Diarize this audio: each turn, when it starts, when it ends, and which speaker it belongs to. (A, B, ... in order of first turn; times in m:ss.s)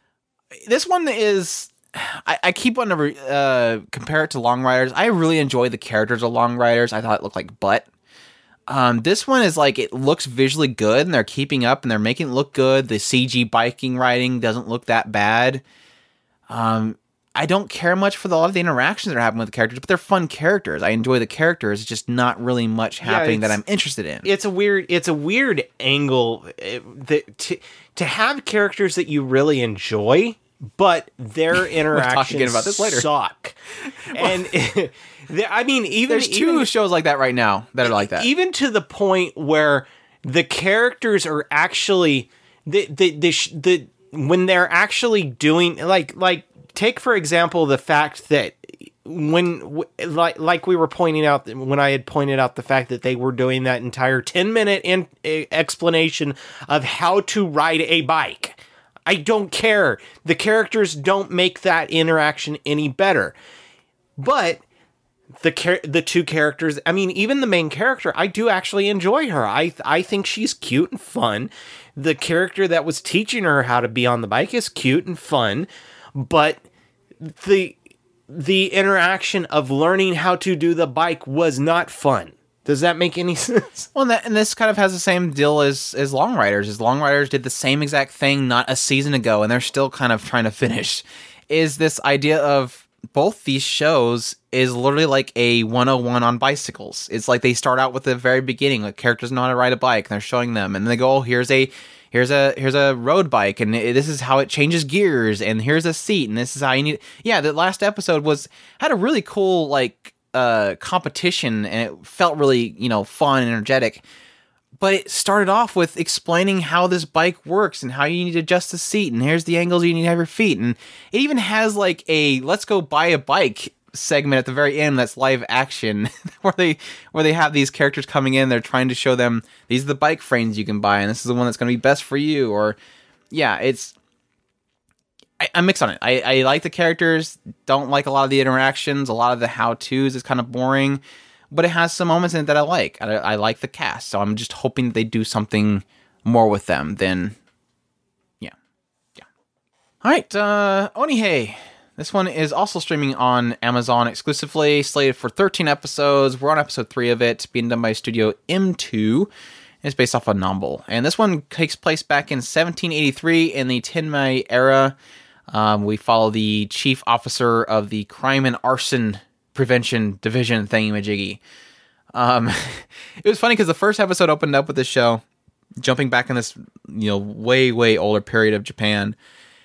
0:00.7-0:07.9 A
0:08.7-0:15.6 A
0:16.5-0:24.3 A
0:23.0-0:23.6 B
0:24.2-0:33.6 B
0:31.6-0:33.1 A
0:34.1-0:34.4 A
0:34.1-0:36.7 B
0:36.1-0:38.3 A
0:37.8-1:03.4 B
1:04.2-1:04.6 B
1:05.4-1:16.6 B
1:17.2-1:17.8 B
1:18.3-1:23.9 B
1:23.9-1:54.0 A
1:54.8-2:12.8 A
2:13.3-2:13.9 A
2:15.4-2:27.4 A
2:30.0-2:39.3 A
2:39.8-2:45.0 A
2:45.5-2:51.4 A
2:52.1-2:55.2 A
2:55.8-2:59.2 A